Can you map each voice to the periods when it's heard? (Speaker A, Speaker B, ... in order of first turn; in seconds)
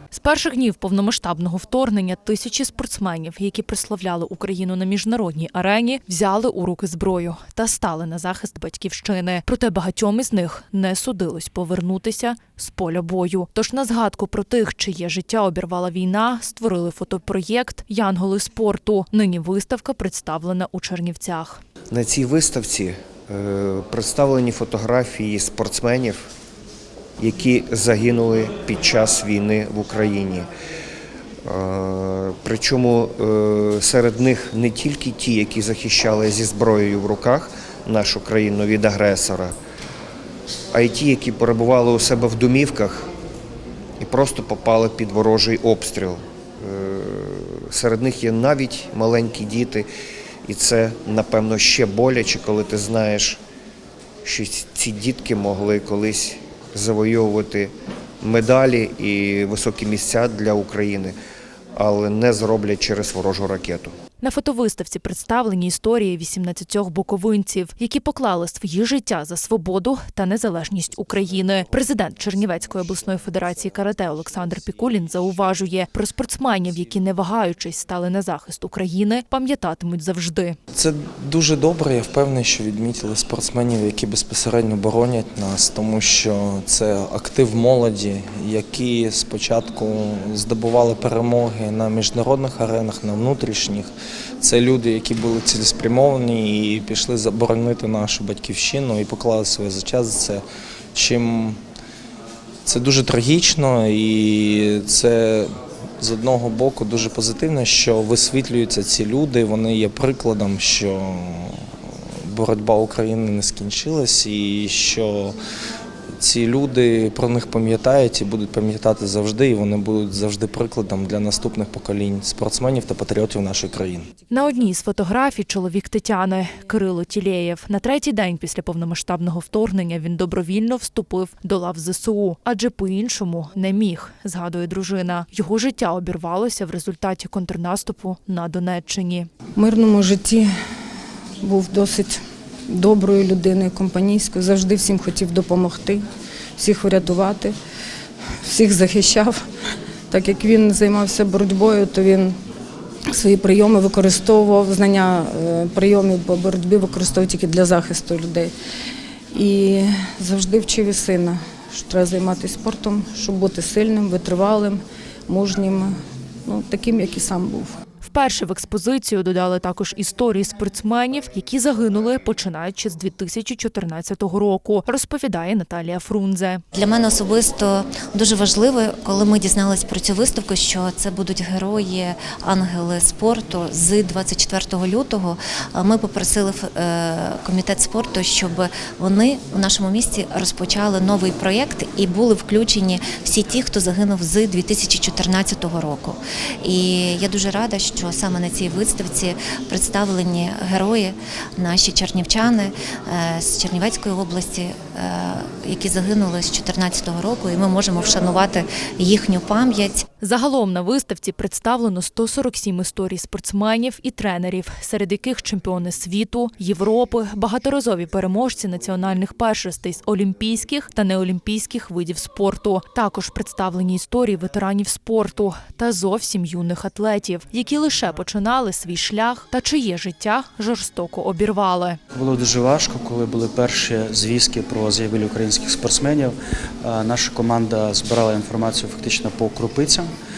Speaker A: 0.1-21.6, 64.2-80.6, 124.3-139.3, 168.0-176.6, 210.2-232.0
Speaker B: 21.9-26.2, 27.2-30.5, 31.4-39.5, 40.7-43.0, 44.0-49.9, 50.5-53.4, 54.2-57.7, 58.2-61.1, 61.8-63.9
Speaker C: 80.7-93.9, 94.4-100.4, 100.9-101.6, 102.7-111.6, 112.2-115.3, 116.2-124.1
Speaker D: 139.6-140.5, 141.4-146.0, 146.6-147.5, 148.4-149.4, 150.1-152.3, 153.1-158.5, 159.3-167.7
Speaker E: 176.7-210.0
Speaker F: 232.1-240.1